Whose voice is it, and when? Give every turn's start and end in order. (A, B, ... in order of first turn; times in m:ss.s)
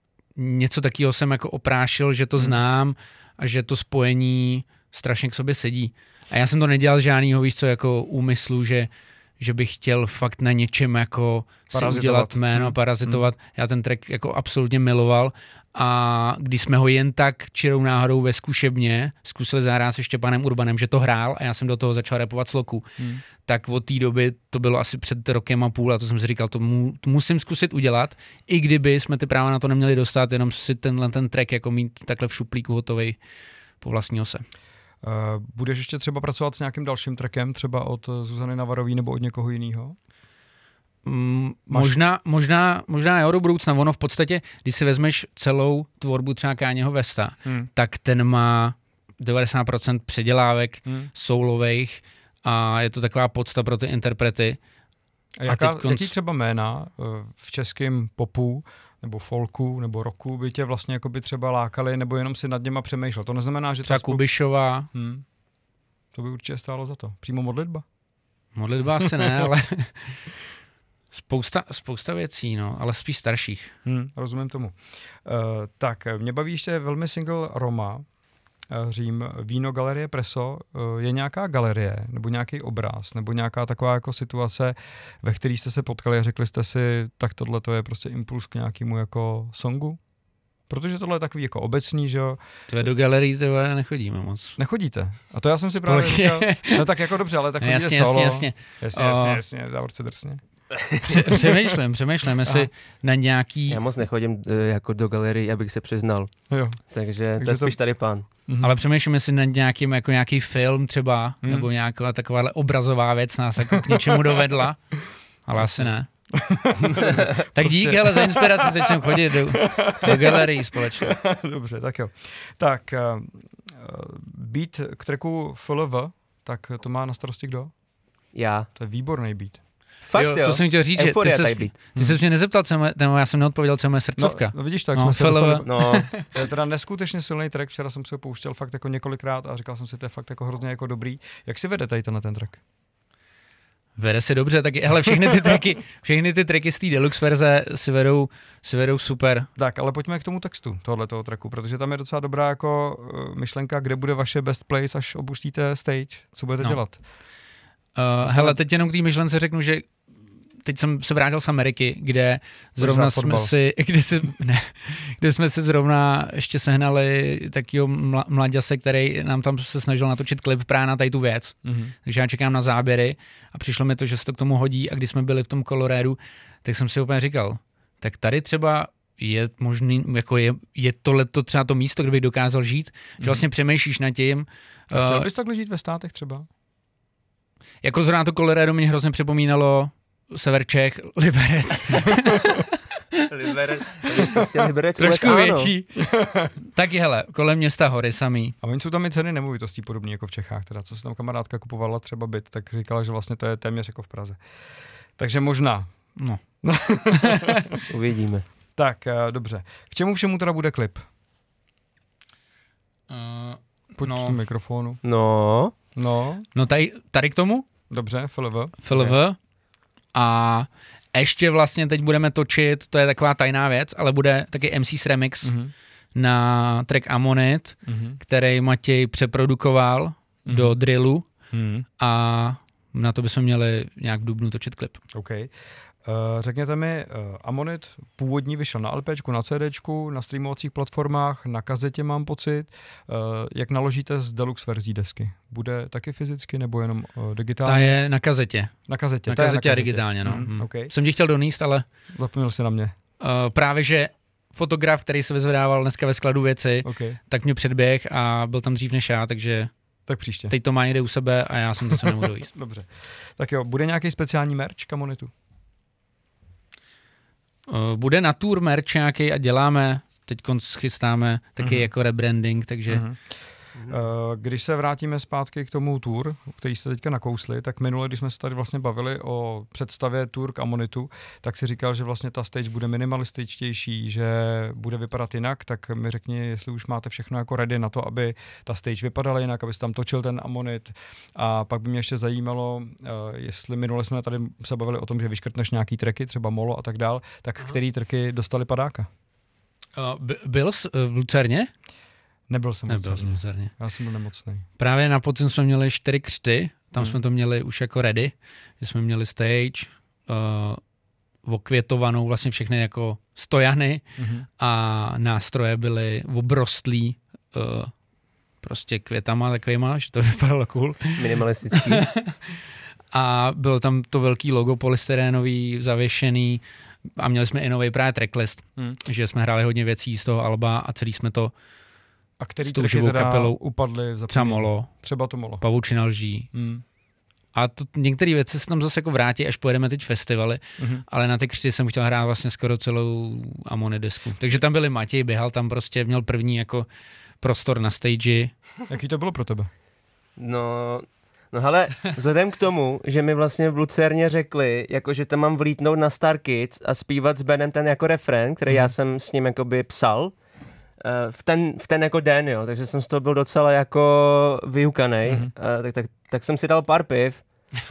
0:00.3-0:33.2 A
0:11.7-0:13.2 B
0:23.0-0:23.2 B
0:33.8-0:34.4 A
0:35.0-0:40.0 B
0:41.0-0:54.6 A
0:41.7-0:42.0 B
0:47.4-0:47.7 B
0:50.8-0:51.1 B
0:55.4-1:04.2 B
0:55.5-0:56.1 A
1:03.9-1:04.9 A
1:04.9-1:05.2 B
1:06.1-1:07.8 B
1:08.5-1:10.2 A
1:11.1-1:13.7 A
1:13.8-1:18.1 B
1:18.7-1:30.0 B
1:30.7-1:32.9 B
1:32.7-1:34.6 A
1:34.6-1:41.6 B
1:35.8-1:36.8 A
1:37.6-1:39.4 A
1:41.0-1:43.8 A
1:43.7-1:48.3 C
1:46.5-1:46.8 B
1:47.4-1:47.8 B
1:48.5-1:48.7 B
1:48.6-1:54.9 A
1:51.4-1:51.7 B
1:53.7-1:54.4 B
1:55.4-1:56.1 A
1:55.6-2:07.7 B
1:57.0-2:01.1 A
2:08.3-2:08.7 C
2:08.7-2:09.6 B
2:10.0-2:11.7 C
2:10.1-2:16.2 A
2:14.2-2:22.6 B
2:15.6-2:16.1 C
2:24.0-2:29.5 A
2:29.6-2:37.0 B
2:37.9-2:40.0 A
2:38.2-2:38.6 B
2:40.6-3:05.3 A
2:42.8-2:43.5 B
2:51.6-2:51.9 B
3:03.2-3:03.4 B
3:04.9-3:06.5 B
3:07.8-3:12.7 A
3:13.2-3:15.7 C
3:15.0-3:16.1 A
3:16.0-3:16.5 B
3:16.6-3:18.6 A
3:18.6-3:24.4 B
3:25.2-3:26.1 B
3:26.2-3:26.4 A
3:26.6-3:27.8 B
3:27.1-3:27.6 A
3:27.9-3:28.4 C
3:28.8-3:31.0 B
3:33.1-3:34.4 A
3:33.9-3:35.0 B
3:35.0-3:35.7 C
3:35.9-3:36.5 B
3:36.5-3:37.6 A
3:37.9-3:39.2 B
3:38.8-3:39.4 A
3:40.1-3:45.5 A
3:45.4-3:45.7 B
3:46.1-3:51.3 A
3:47.8-3:48.2 B
3:50.4-3:50.8 B
3:51.5-3:51.8 B
3:52.0-3:55.0 A
3:55.1-4:08.0 B
4:07.6-4:11.8 A
4:08.9-4:10.9 B
4:12.1-4:12.9 B
4:13.2-4:19.7 A
4:16.8-4:17.2 B
4:20.1-4:20.5 B
4:20.5-4:22.5 A
4:21.9-4:25.3 B
4:27.7-4:33.0 A
4:31.6-4:31.9 B
4:32.9-4:59.1 B
5:00.0-5:01.7 A
5:02.5-5:04.6 B
5:02.9-5:03.7 A
5:04.8-5:10.8 A
5:11.4-5:14.0 A
5:14.2-5:14.5 B
5:14.6-5:17.9 A
5:18.6-5:21.2 A
5:21.2-5:22.1 C
5:21.8-5:22.6 A
5:23.1-5:26.6 A
5:27.2-5:31.5 A
5:32.4-5:35.6 B
5:32.6-5:33.6 A
5:34.3-5:35.0 A
5:35.6-5:36.5 A
5:36.5-5:36.8 B
5:37.5-5:46.9 A
5:40.8-5:41.0 B
5:47.4-5:48.5 A
5:48.9-5:49.7 B
5:50.4-6:00.3 C
5:58.7-5:58.9 B
6:01.0-6:07.4 C
6:05.2-6:05.5 B